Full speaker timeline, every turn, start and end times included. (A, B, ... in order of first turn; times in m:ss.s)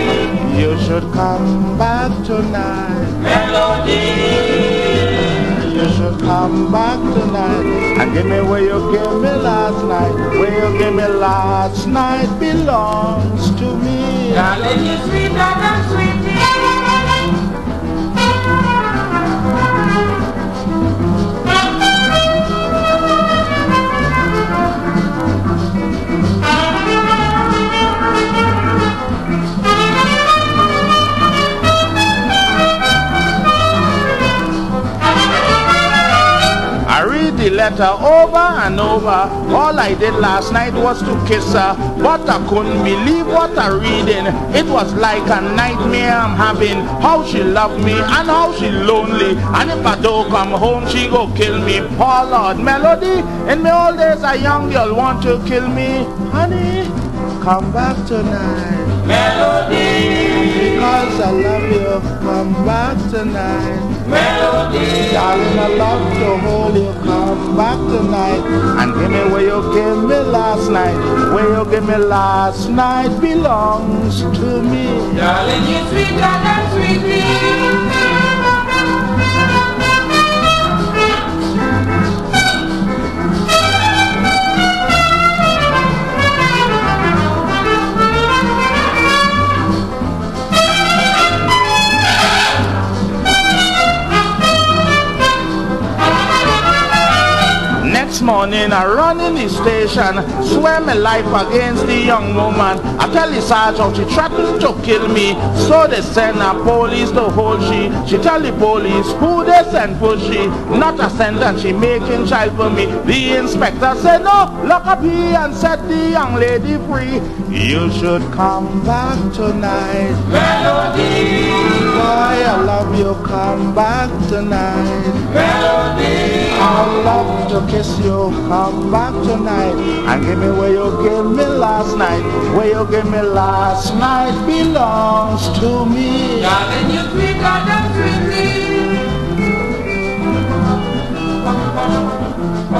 0:00.1-0:14.8 A
0:14.7-0:16.7 B
0:36.8-1:15.6 A
1:15.6-1:17.8 B
1:37.7-2:17.1 A
2:17.1-2:18.7 B